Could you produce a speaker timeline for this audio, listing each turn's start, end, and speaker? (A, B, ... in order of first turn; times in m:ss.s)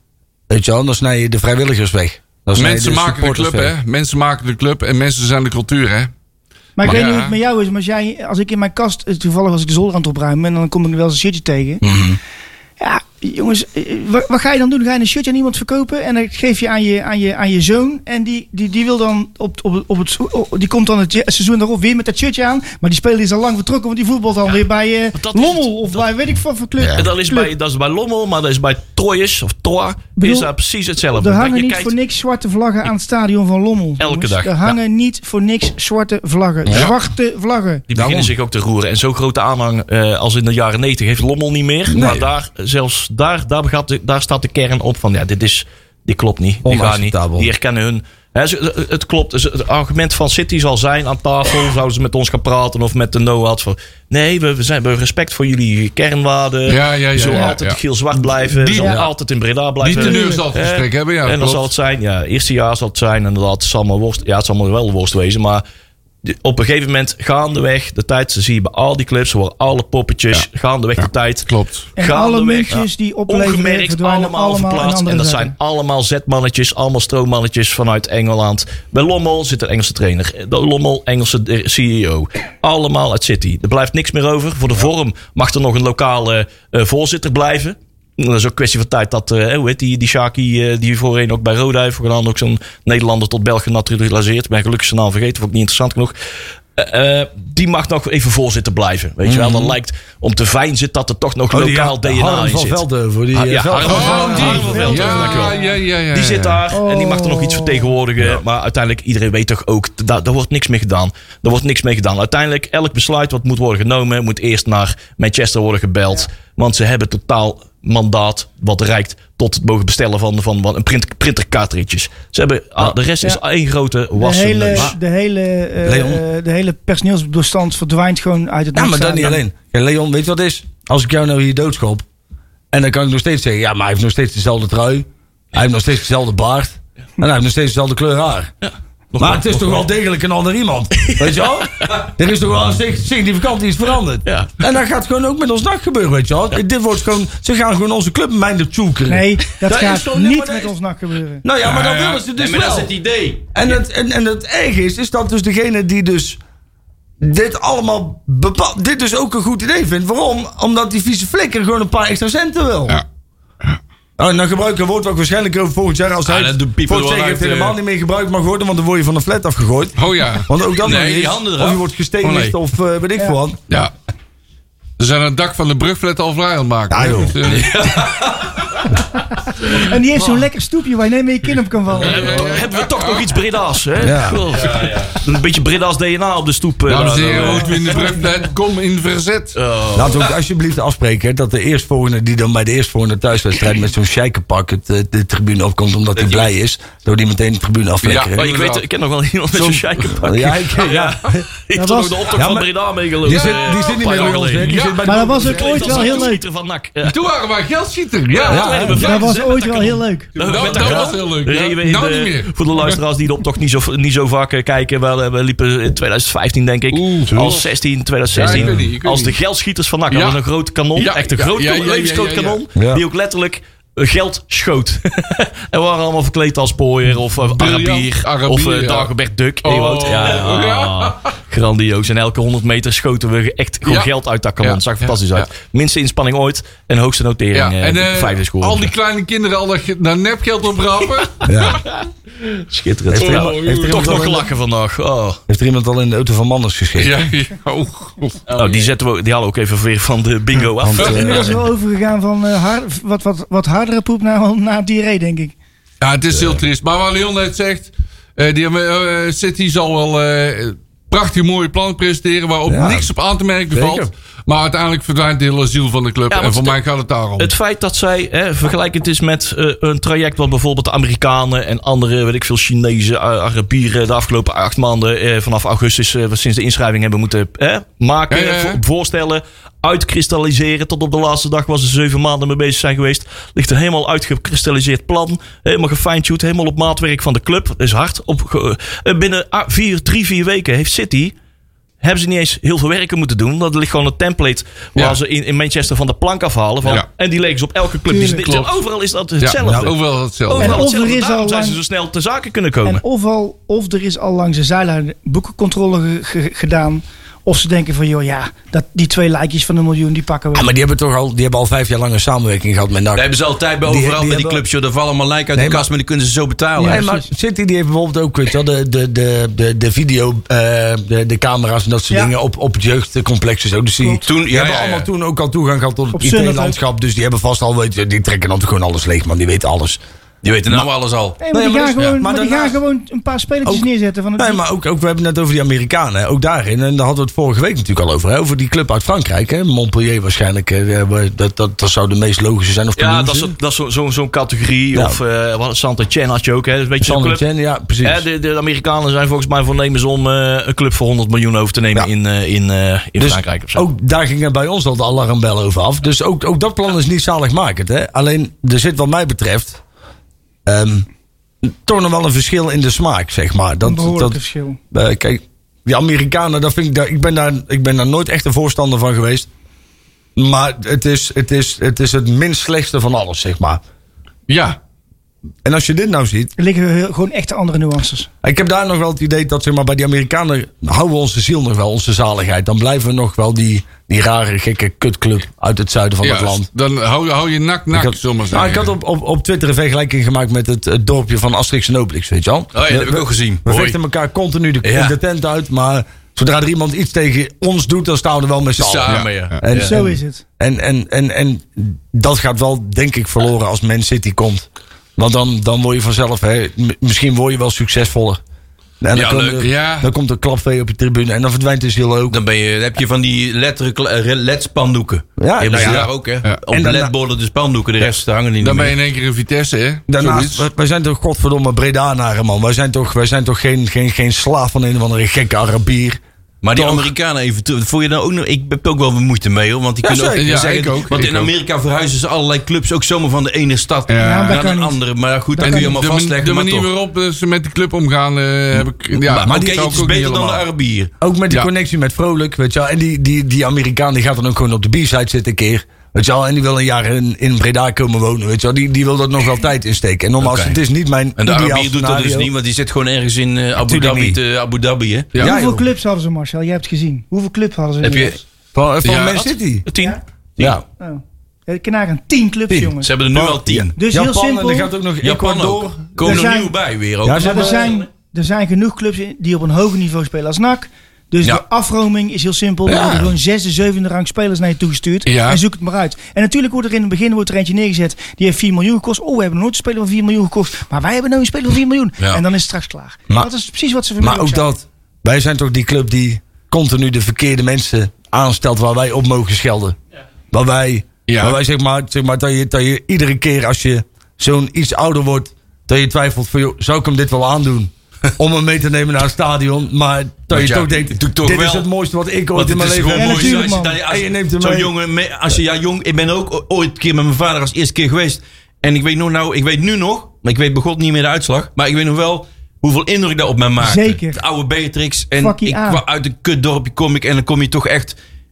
0:00.5-0:03.7 A
0:02.5-0:06.1 B
0:06.8-0:11.8 C
0:06.8-0:07.4 B
0:11.8-0:12.2 A
0:12.8-0:27.5 C
0:25.1-0:25.9 D
0:26.8-0:27.1 A
0:26.9-0:31.9 D
0:30.2-0:30.5 C
0:31.1-0:37.8 C
0:34.0-0:34.8 D
0:36.6-0:36.9 A
0:36.7-0:37.0 B
0:37.9-1:05.6 D
0:38.0-0:38.3 A
0:41.9-0:42.3 A
0:46.6-0:47.5 A
0:56.7-0:59.1 B
0:58.8-0:59.0 C
0:59.8-1:01.7 B
0:59.9-1:00.4 C
1:06.2-1:36.2 D
1:11.0-1:11.9 B
1:12.0-1:15.5 C
1:36.7-2:05.0 D
1:39.2-1:39.7 A
1:41.5-1:45.5 A
1:43.8-1:46.6 B
1:46.7-1:47.9 C
2:04.2-2:09.4 C
2:05.8-2:06.2 A
2:08.7-2:12.0 A
2:12.7-2:18.5 A
2:18.6-2:19.8 D
2:19.2-2:30.7 A
2:20.9-2:22.0 D
2:24.2-2:24.6 D
2:29.1-2:31.4 C
2:31.4-2:32.9 A
2:31.6-2:32.2 B
2:32.3-2:33.8 E
2:33.5-2:36.4 A
2:37.2-2:43.0 A
2:44.2-2:53.6 A
2:46.2-2:47.8 E
2:50.0-2:50.5 B
2:50.8-2:52.5 E
2:55.0-2:57.7 B
2:56.9-2:57.4 A
2:57.4-2:58.6 E
2:59.5-3:02.6 C
3:01.9-3:03.3 B
3:02.0-3:08.2 D
3:04.0-3:04.4 A
3:06.8-3:09.6 B
3:09.5-3:10.3 D
3:09.9-3:18.4 A
3:18.0-3:18.8 B
3:18.3-3:27.2 D
3:19.5-3:20.1 B
3:20.1-3:21.4 A
3:21.7-3:22.2 C
3:22.3-3:22.7 A
3:23.2-3:26.0 A
3:23.2-3:26.2 B
3:25.0-3:26.4 C
3:27.0-3:29.4 B
3:28.3-3:58.9 D
3:28.5-3:29.1 A
3:28.9-3:30.3 C
3:30.4-3:33.0 B
3:36.9-3:37.7 B
3:38.3-3:39.4 B
3:38.4-3:38.8 A
3:40.1-3:40.4 B
3:41.0-3:42.6 B
3:42.8-3:43.0 A
3:47.5-3:49.1 B
3:49.6-3:51.3 B
3:53.9-3:55.5 B
3:57.5-4:01.8 B
4:01.2-4:05.4 D
4:01.4-4:01.8 A
4:03.1-4:04.5 A
4:03.1-4:04.2 B
4:05.5-4:07.2 A
4:07.0-4:08.5 B
4:08.5-4:11.6 D
4:10.8-4:11.5 A
4:11.0-4:11.4 B
4:11.0-4:15.5 C
4:16.0-4:27.5 B
4:16.3-4:16.6 A
4:22.7-4:23.1 A
4:23.7-4:24.1 A
4:26.3-4:26.8 D
4:27.4-4:51.3 D
4:38.3-4:38.8 B
4:52.0-5:03.0 D
4:58.1-4:58.4 C
4:58.3-4:58.8 B
4:59.4-5:00.8 B
4:59.6-4:59.9 A
5:00.5-5:01.8 C
5:02.8-5:10.7 C
5:10.5-5:14.6 A
5:13.1-5:17.1 E
5:15.5-5:15.8 A
5:16.8-5:17.2 C
5:16.8-5:30.0 A
5:24.2-5:25.1 E
5:26.1-5:26.8 C
5:30.4-5:31.4 E
5:31.4-5:34.6 C
5:31.5-5:32.8 A
5:34.4-5:43.5 A
5:43.0-5:47.4 D
5:44.9-5:45.2 A
5:47.0-5:48.2 A
5:48.0-5:53.8 D
5:53.2-5:59.8 A
6:00.6-6:01.1 A
6:01.6-6:04.4 A
6:03.8-6:04.8 C
6:04.9-6:09.5 A
6:10.4-6:13.8 A
6:14.5-6:14.8 B
6:15.6-6:16.5 A
6:16.6-6:18.3 C
6:18.4-6:26.7 A
6:26.2-6:28.9 B
6:27.9-6:48.4 A
6:32.7-6:34.0 E
6:34.8-6:35.2 E
6:38.8-6:39.9 E
6:39.1-6:39.6 B
6:39.7-6:40.4 C
6:49.0-6:52.4 A
6:49.1-6:49.7 E
6:49.6-6:50.1 B
6:52.3-6:59.0 E
6:55.4-6:56.1 A
6:55.8-6:56.6 B
6:56.7-6:57.1 A
6:58.6-7:00.6 B
7:00.1-7:06.2 A
7:06.6-7:16.9 E
7:06.7-7:07.1 A
7:10.0-7:10.5 A
7:10.3-7:11.5 B
7:14.1-7:14.7 B
7:14.2-7:15.0 C
7:15.5-7:16.0 C
7:15.6-7:20.6 B
7:19.2-7:21.1 E
7:19.4-7:19.8 A
7:21.2-7:32.5 A
7:30.4-7:30.8 E
7:31.4-7:35.3 E
7:33.8-7:34.4 A
7:35.4-7:35.9 A
7:35.4-7:38.4 C
7:38.0-7:38.4 E
7:38.7-7:39.9 A
7:39.0-7:39.4 B
7:39.4-7:40.2 D
7:41.0-7:43.1 C
7:42.7-7:46.4 A
7:43.0-7:43.9 E
7:44.0-7:44.9 C
7:45.2-7:48.0 E
7:46.2-7:46.7 C
7:47.2-7:47.8 A
7:47.4-8:04.7 C
7:47.7-7:48.0 D
7:52.8-7:53.3 A
7:55.2-7:55.6 B
8:04.2-8:10.0 A
8:10.5-8:24.9 A
8:11.3-8:11.6 B
8:20.5-8:21.9 E
8:22.5-8:38.2 E
8:23.1-8:24.0 C
8:33.8-8:34.4 C
8:35.4-8:36.0 C